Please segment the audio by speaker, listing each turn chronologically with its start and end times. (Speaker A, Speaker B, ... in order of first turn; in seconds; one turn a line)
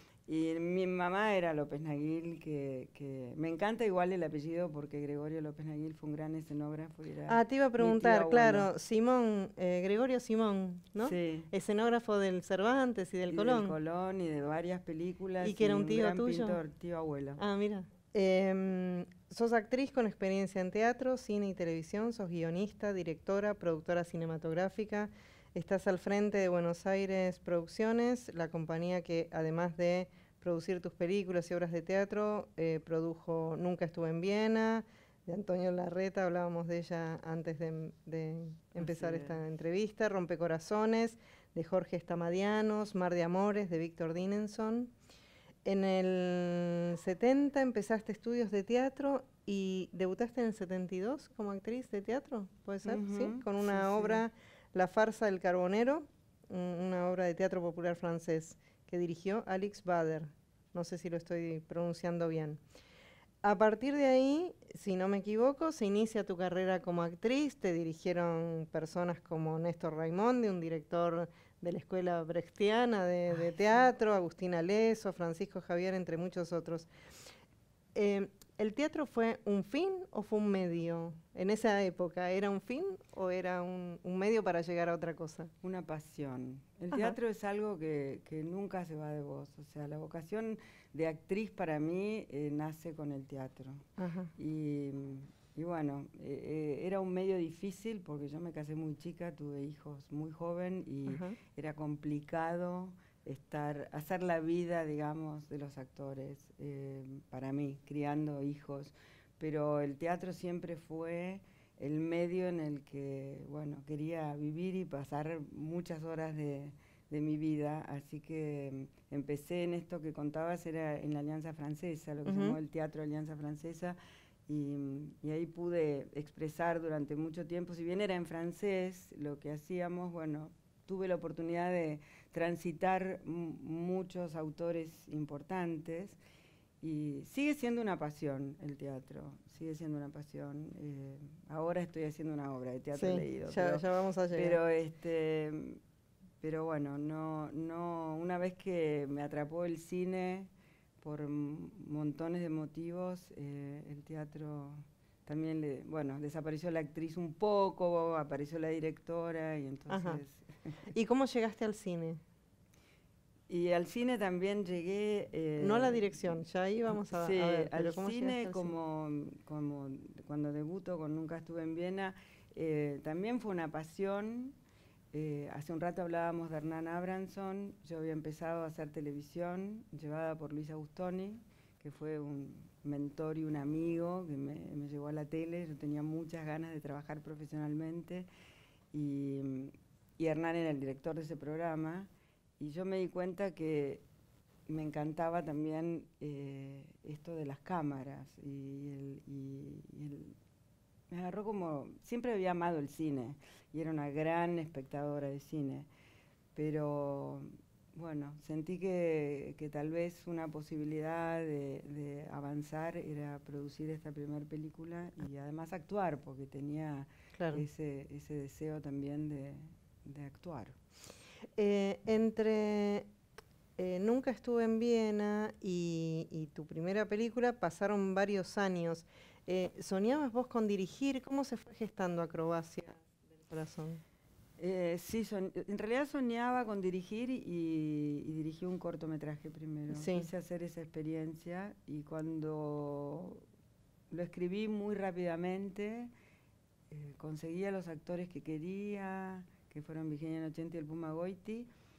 Speaker A: 0.3-8.7
Speaker B: 7.3-13.8
Speaker A: 11.0-11.5
Speaker A: 13.3-17.4
Speaker B: 15.4-16.6
Speaker B: 17.4-44.9
Speaker A: 38.8-39.4
Speaker B: 45.6-62.6
Speaker A: 52.9-54.2
Speaker B: 63.4-76.9
Speaker B: 78.0-85.5
Speaker A: 85.6-124.0
Speaker B: 94.0-94.3
Speaker B: 101.1-101.4
Speaker B: 122.3-122.6
Speaker A: 124.5-136.2
Speaker A: 136.8-143.8
Speaker B: 143.0-144.6
Speaker A: 144.3-145.8
Speaker A: 146.4-150.5
Speaker A: 151.0-160.4
Speaker B: 159.9-160.2
Speaker B: 160.9-162.2
Speaker A: 163.5-166.0
Speaker B: 165.6-168.7
Speaker A: 167.1-174.6
Speaker A: 175.1-188.3
Speaker A: 188.9-194.0
Speaker A: 194.7-200.3
Speaker A: 201.1-205.9
Speaker A: 206.6-220.8
Speaker B: 217.4-217.6
Speaker B: 221.6-223.1
Speaker B: 223.8-234.0
Speaker A: 234.6-243.4
Speaker B: 239.9-240.3
Speaker A: 244.1-246.1
Speaker A: 246.9-251.7